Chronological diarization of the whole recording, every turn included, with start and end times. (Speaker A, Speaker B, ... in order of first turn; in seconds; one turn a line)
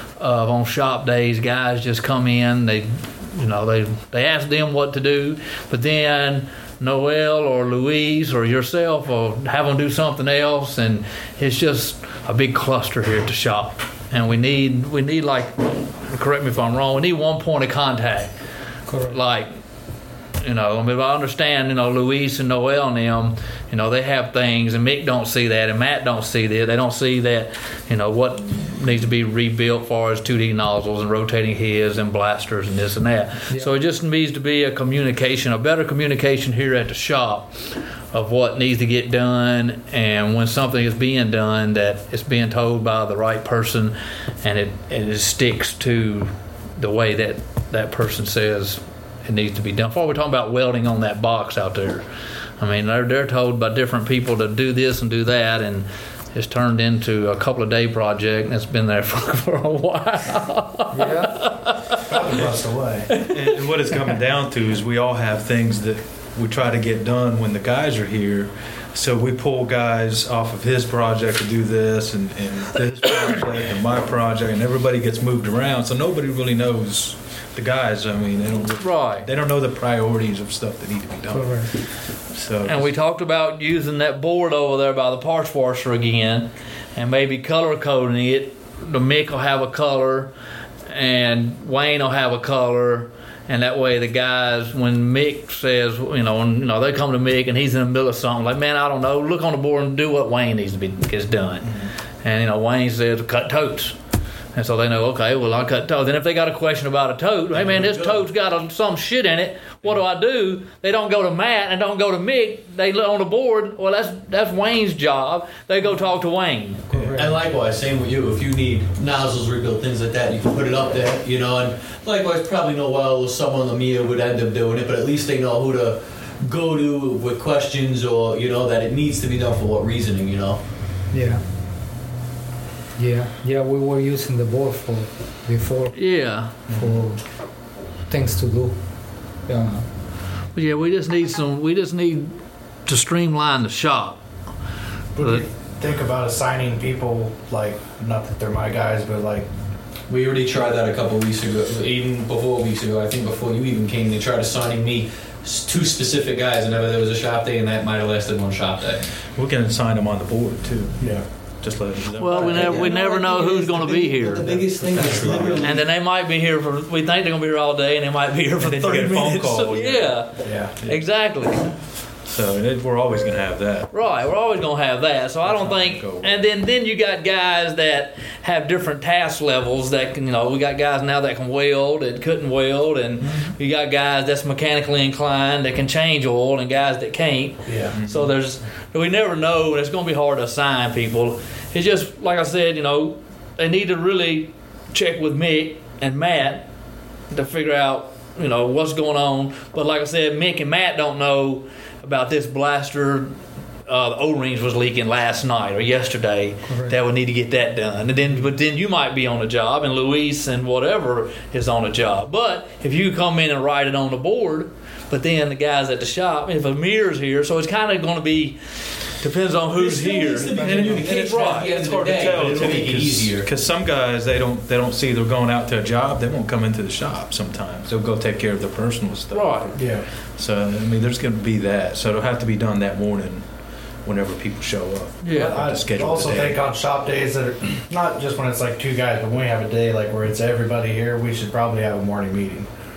Speaker A: 0.2-18.3
Speaker B: 18.9-19.2
Speaker A: 19.1-19.5
Speaker A: 20.4-52.0
Speaker A: 52.6-62.0
Speaker B: 60.9-61.5
Speaker C: 62.0-63.1
Speaker A: 63.1-63.6
Speaker D: 63.2-82.9
Speaker A: 78.8-79.3
Speaker B: 81.3-81.8
Speaker A: 82.6-90.3
Speaker A: 90.9-104.0
Speaker A: 104.5-116.8
Speaker E: 107.5-108.3
Speaker B: 116.9-117.4
Speaker D: 116.9-117.2
Speaker E: 117.2-130.6
Speaker B: 131.1-131.4
Speaker B: 133.0-139.9
Speaker A: 135.9-136.5
Speaker C: 136.7-137.0
Speaker A: 140.5-144.2
Speaker C: 145.2-149.5
Speaker A: 145.2-145.4
Speaker E: 150.1-159.1
Speaker D: 159.3-162.8
Speaker C: 161.0-161.3
Speaker A: 162.2-164.6
Speaker E: 162.3-165.8
Speaker D: 164.8-165.7
Speaker A: 165.6-170.3
Speaker D: 168.6-170.3
Speaker C: 170.4-170.8
Speaker D: 170.8-171.2
Speaker A: 170.8-171.7
Speaker D: 172.3-173.9
Speaker A: 173.9-196.7
Speaker D: 175.4-176.3
Speaker C: 183.2-183.5
Speaker C: 187.7-188.0
Speaker D: 187.9-188.3
Speaker A: 197.3-203.3
Speaker A: 203.9-218.6
Speaker B: 206.7-207.0
Speaker A: 219.2-221.7
Speaker E: 219.7-223.5
Speaker D: 220.5-233.5
Speaker B: 220.5-221.0
Speaker A: 229.3-229.8
Speaker C: 229.7-230.1
Speaker D: 234.0-236.6
Speaker A: 235.2-235.6
Speaker C: 235.3-242.7